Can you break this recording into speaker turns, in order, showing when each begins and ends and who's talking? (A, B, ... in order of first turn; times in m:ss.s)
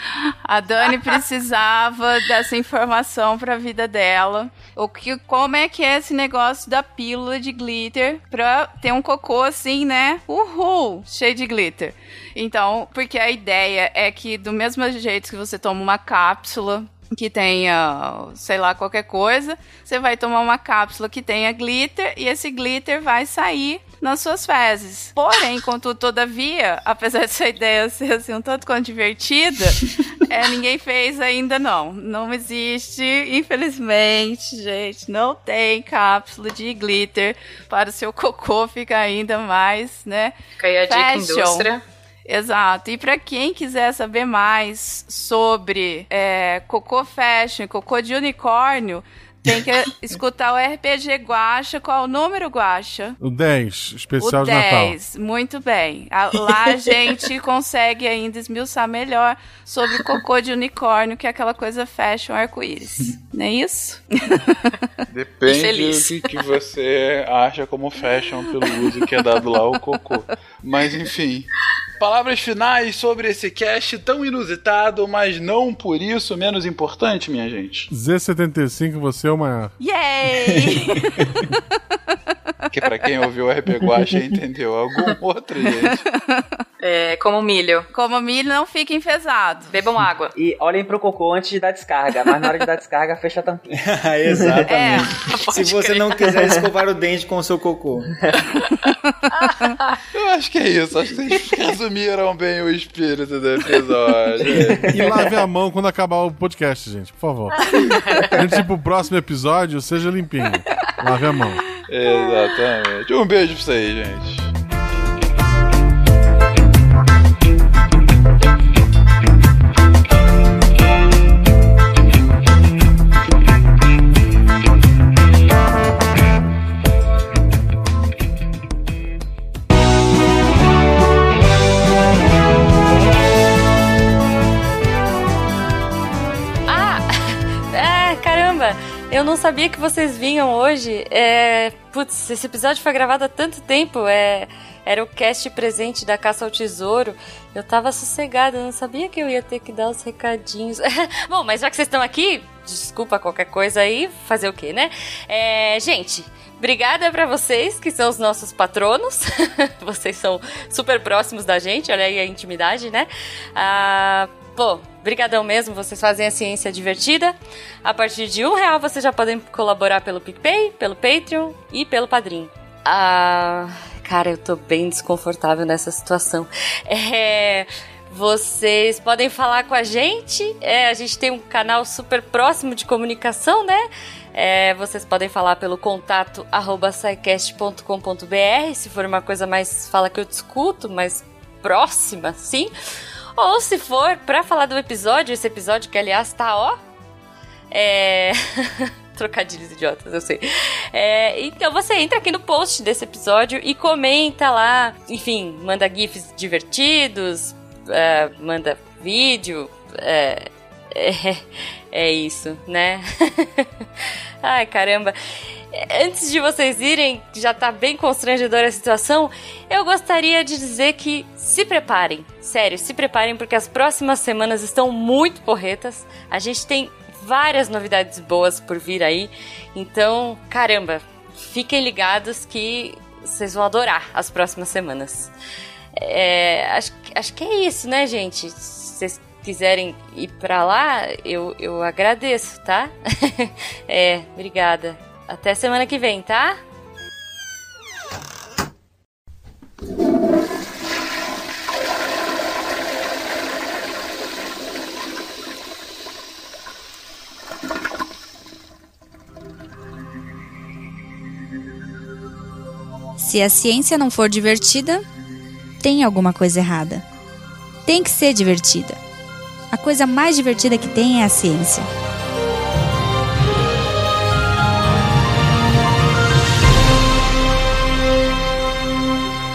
0:00.4-0:40.3 A
0:40.6-0:41.8 B
0:40.9-0:41.7 A
0:42.3-0:53.2 A
0:53.2-0:55.0 C
0:54.2-1:04.6 A
1:05.1-1:17.9 D
1:05.5-1:06.1 B
1:17.9-1:19.7 C
1:19.8-1:21.6 A
1:22.7-1:26.0 D
1:26.1-1:26.5 A
1:26.8-1:27.9 B
1:27.9-1:29.7 A
1:29.7-1:30.3 B
1:30.4-1:33.6 E
1:33.7-1:38.2 F
1:34.3-1:34.6 E
1:34.7-1:35.1 A
1:35.2-1:36.1 B
1:36.2-1:36.6 E
1:40.1-1:45.0 D
1:44.9-1:47.5 C
1:48.3-1:51.6 C
1:51.9-1:54.5 D
2:16.7-2:17.0 G
2:17.7-2:39.2 G
2:39.8-3:12.7 G
3:13.4-3:16.8 G
3:17.7-3:33.6 G
3:34.4-3:35.1 G
3:35.7-3:55.3 G
3:56.0-4:06.6 G
4:23.2-4:25.0 H
4:25.8-4:27.0 H
4:27.8-4:29.0 H
4:29.7-4:31.9 H